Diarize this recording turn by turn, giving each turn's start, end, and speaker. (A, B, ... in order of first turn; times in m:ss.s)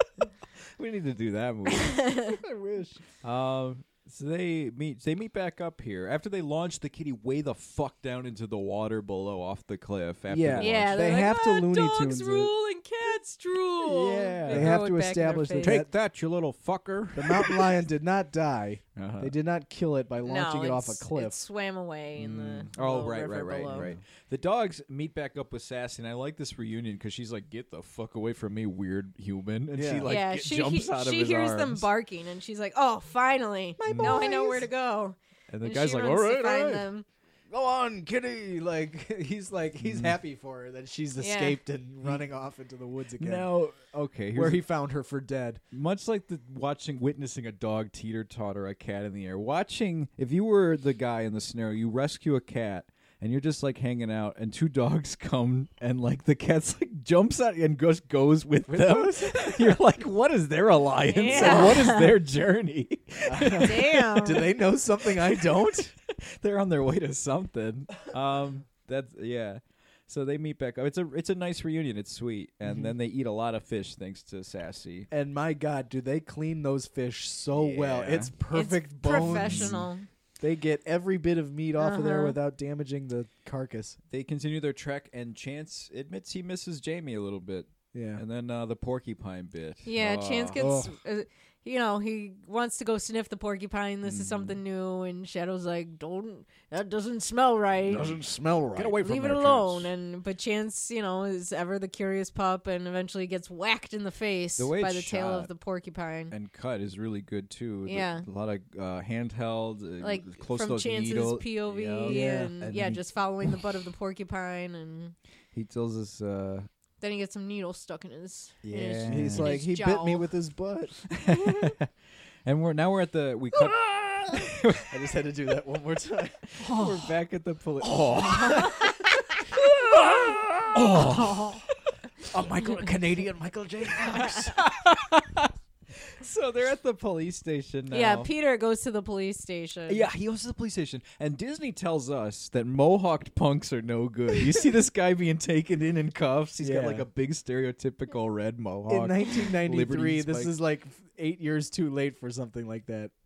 0:00.8-0:02.0 A
0:01.7-0:02.4 B
0:02.3-0:03.0 C
0:03.2-0:11.1 A
0:10.3-0:12.5 C
0:10.6-0:15.8 B
0:13.8-0:14.8 A
0:14.5-0:15.9 C
0:15.6-0:17.8 A
0:17.2-0:21.4 C
0:19.0-0:19.3 A
0:20.2-0:23.9 B
0:22.2-0:31.9 A
0:23.7-0:24.0 C
0:29.8-0:30.1 C
0:30.1-0:37.1 B
0:33.8-0:34.6 C
0:33.9-0:34.3 A
0:35.5-0:36.9 A
0:37.5-0:43.5 C
0:39.8-0:40.2 A
0:41.2-0:41.6 B
0:43.2-0:44.6 A
0:44.3-0:45.6 C
0:45.7-1:04.3 A
0:58.7-0:59.8 C
1:01.1-1:02.2 B
1:01.2-1:01.8 C
1:03.3-1:05.9 C
1:03.6-1:04.5 B
1:05.0-1:15.1 A
1:12.6-1:12.9 C
1:15.1-1:19.9 C
1:17.5-1:18.3 A
1:18.5-1:20.1 B
1:19.2-1:19.8 A
1:20.4-1:24.0 C
1:21.8-1:22.4 B
1:24.1-1:30.8 A
1:27.9-1:28.2 C
1:29.8-1:38.2 B
1:30.6-1:30.9 C
1:34.0-1:34.6 A
1:37.9-1:39.1 C
1:38.8-1:39.9 A
1:38.9-1:46.3 B
1:44.6-1:45.5 A
1:46.3-1:53.6 A
1:47.9-1:48.3 B
1:50.0-1:55.2 B
1:52.1-1:52.5 C
1:55.5-1:56.7 A
1:57.0-2:00.3 B
1:58.6-1:59.6 A
1:59.1-2:01.0 C
2:01.1-2:01.9 A
2:02.4-2:04.9 A
2:04.9-2:06.6 C
2:06.6-2:09.0 A
2:06.6-2:07.0 B
2:07.8-2:08.9 C
2:08.4-2:09.2 B
2:09.5-2:11.7 A
2:10.8-2:11.0 C
2:10.9-2:11.6 B
2:12.3-2:14.6 C
2:14.1-2:18.3 A
2:17.9-2:20.1 B
2:19.9-2:30.5 A
2:26.6-2:27.1 C
2:28.9-2:33.1 C